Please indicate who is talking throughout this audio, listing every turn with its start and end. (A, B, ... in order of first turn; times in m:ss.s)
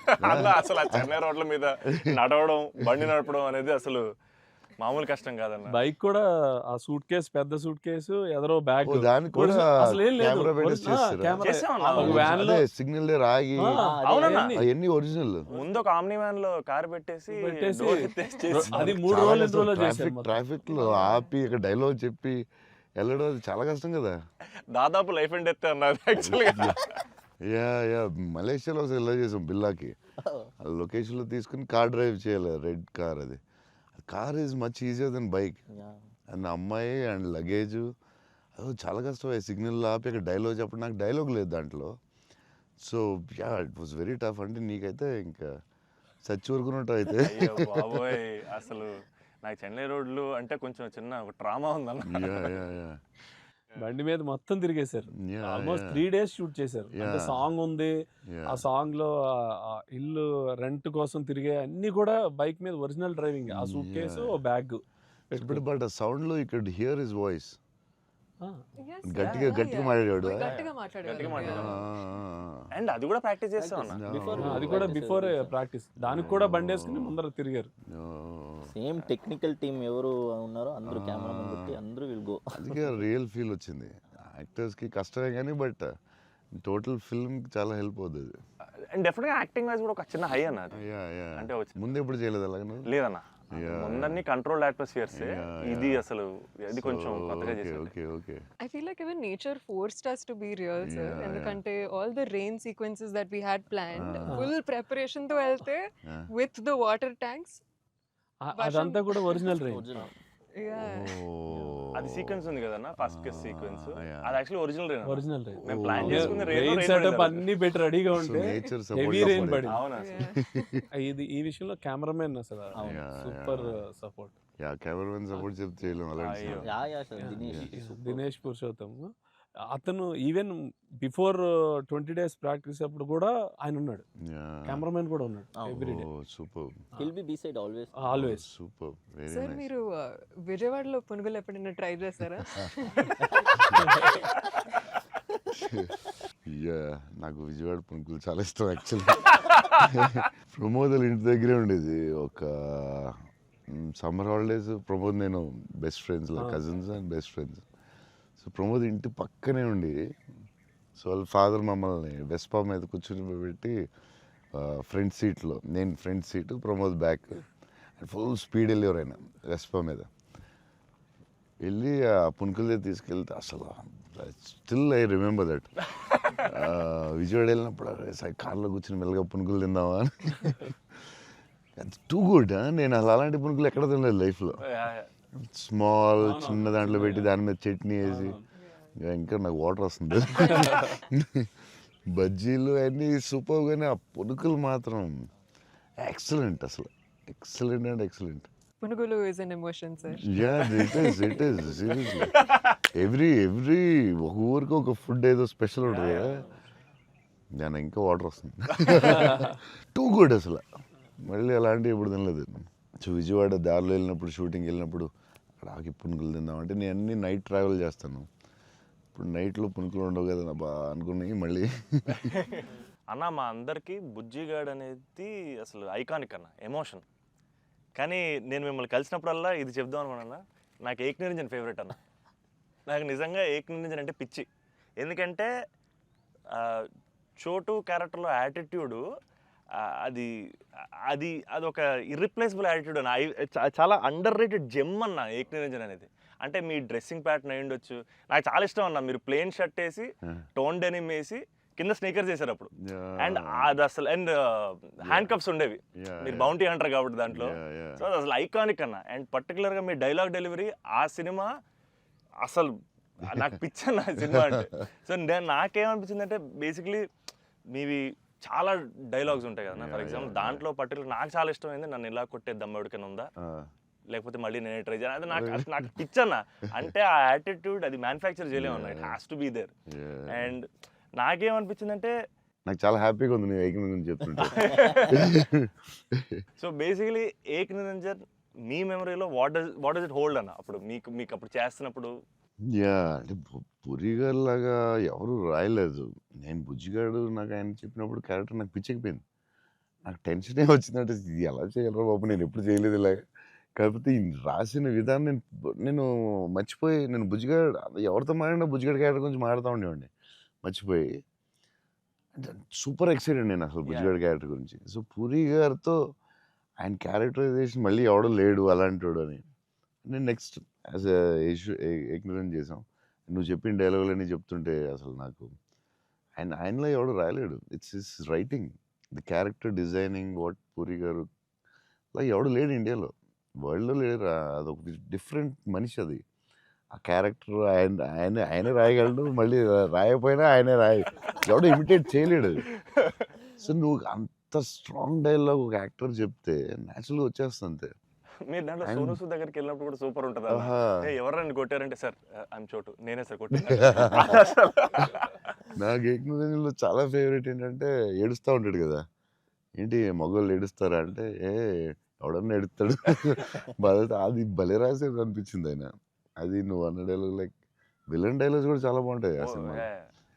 0:00.2-0:04.0 A
0:00.2-0:01.1 B
0:04.8-0:05.7 A
0:05.7-0:12.6 C
0:08.9-0:13.8 B
0:11.4-0:12.4 A
0:13.6-0:14.6 C
0:13.7-0:14.5 D
0:14.0-0:14.5 A
0:14.5-0:15.5 B
0:15.5-0:19.0 A
0:17.3-0:20.4 C
0:18.6-0:22.4 B
0:20.7-0:21.2 E
0:23.0-0:24.2 B
0:24.7-0:27.0 A
0:26.2-0:26.8 B
0:27.4-0:30.0 B
0:30.2-0:30.5 D
0:30.6-0:33.4 B
0:34.0-0:35.6 B
0:35.7-0:36.1 D
0:36.3-0:37.9 B
0:38.6-0:41.9 B
0:42.8-0:45.5 B
0:46.2-0:48.2 B
0:47.2-0:48.9 A
0:49.4-0:52.5 A
0:52.1-0:53.0 B
0:53.8-0:57.9 C
0:55.2-0:56.0 B
0:57.0-0:57.5 B
0:58.3-0:58.6 B
0:58.5-1:05.6 C
1:03.5-1:04.4 B
1:05.3-1:07.6 B
1:08.8-1:11.6 E
1:09.0-1:10.6 B
1:09.2-1:09.5 A
1:10.4-1:11.7 A
1:11.3-1:12.6 B
1:12.7-1:14.0 A
1:13.6-1:15.6 D
1:13.9-1:15.0 B
1:14.4-1:17.7 C
1:16.0-1:17.2 B
1:17.9-1:18.6 B
1:18.7-1:22.8 D
1:20.8-1:21.8 B
1:22.6-1:25.9 B
1:26.6-1:28.3 B
1:28.9-1:30.8 A
1:30.7-1:32.9 B
1:31.4-1:31.8 A
1:32.9-1:37.9 A
1:33.5-1:34.2 B
1:35.1-1:36.0 B
1:36.7-1:38.4 B
1:38.6-1:47.6 E
1:40.8-1:41.6 B
1:43.9-1:44.4 B
1:44.2-1:44.5 C
1:48.4-1:50.1 C
1:48.5-1:49.5 E
1:49.5-1:50.1 D
1:50.6-1:51.1 E
1:50.8-1:54.4 B
1:51.5-1:51.8 D
1:51.9-1:57.4 A
1:55.0-1:59.8 C
1:55.6-1:56.8 B
1:58.1-2:00.8 B
1:59.6-2:00.2 A
2:00.0-2:00.7 E
2:00.9-2:04.3 C
2:02.7-2:03.0 D
2:02.8-2:03.6 B
2:04.6-2:06.7 B
2:06.2-2:06.7 A
2:06.4-2:08.3 D
2:07.2-2:09.1 C
2:07.4-2:07.7 B
2:09.7-2:14.0 C
2:14.3-2:14.8 B
2:14.7-2:16.1 C
2:15.6-2:15.8 D
2:15.8-2:16.8 B
2:17.0-2:18.1 D
2:18.0-2:18.4 C
2:18.1-2:19.7 B
2:19.3-2:23.2 E
2:25.6-2:33.2 B
2:33.7-2:37.6 B
2:38.4-2:40.0 B
2:41.0-2:43.8 B
2:44.6-2:47.5 B
2:48.0-2:50.1 B
2:51.6-2:55.7 B
2:56.1-2:56.4 A
2:56.4-3:00.8 B
3:01.8-3:04.7 B
3:04.7-3:05.1 A
3:05.4-3:08.4 B
3:06.2-3:07.3 C
3:08.0-3:08.4 C
3:09.0-3:11.5 B
3:12.1-3:15.2 B
3:16.0-3:18.5 B
3:18.8-3:20.2 E
3:20.2-3:26.4 B
3:20.6-3:20.9 A
3:22.4-3:22.7 A
3:25.8-3:26.5 A
3:27.6-3:30.6 B
3:31.2-3:35.1 B
3:35.6-3:38.3 B
3:39.2-3:42.4 B
3:42.2-3:47.0 A
3:48.0-3:52.0 A
3:52.9-3:54.5 A
3:55.0-3:55.5 A
3:56.5-3:56.9 A
3:57.4-3:59.0 A
3:59.8-4:00.3 A
4:01.1-4:21.5 A
4:12.8-4:13.7 B
4:15.0-4:15.4 B
4:16.0-4:16.6 B
4:17.3-4:18.0 B
4:22.4-4:27.0 A
4:24.2-4:24.7 B
4:27.7-4:33.3 A
4:29.3-4:30.6 B
4:33.4-4:33.7 B
4:34.1-4:39.7 A
4:35.3-4:35.9 B
4:38.5-4:39.2 B
4:39.9-4:40.6 B
4:40.3-4:42.1 A
4:42.7-4:46.4 B
4:44.4-4:45.4 A
4:46.6-4:52.1 A
4:52.7-4:59.2 B
5:00.1-5:03.2 B
5:03.8-5:10.1 B
5:10.6-5:11.1 B
5:12.4-5:16.0 B
5:13.8-5:14.2 A
5:16.8-5:19.4 B
5:20.0-5:25.5 B
5:26.4-5:31.3 B
5:32.1-5:36.2 B
5:36.9-5:42.7 B
5:43.6-5:47.9 B
5:48.5-5:55.3 A
5:48.8-5:49.2 B
5:50.5-5:51.0 B
5:53.8-5:54.4 B
5:55.7-5:59.0 B
5:59.8-6:07.6 B
6:08.1-6:09.9 B
6:09.4-6:10.0 A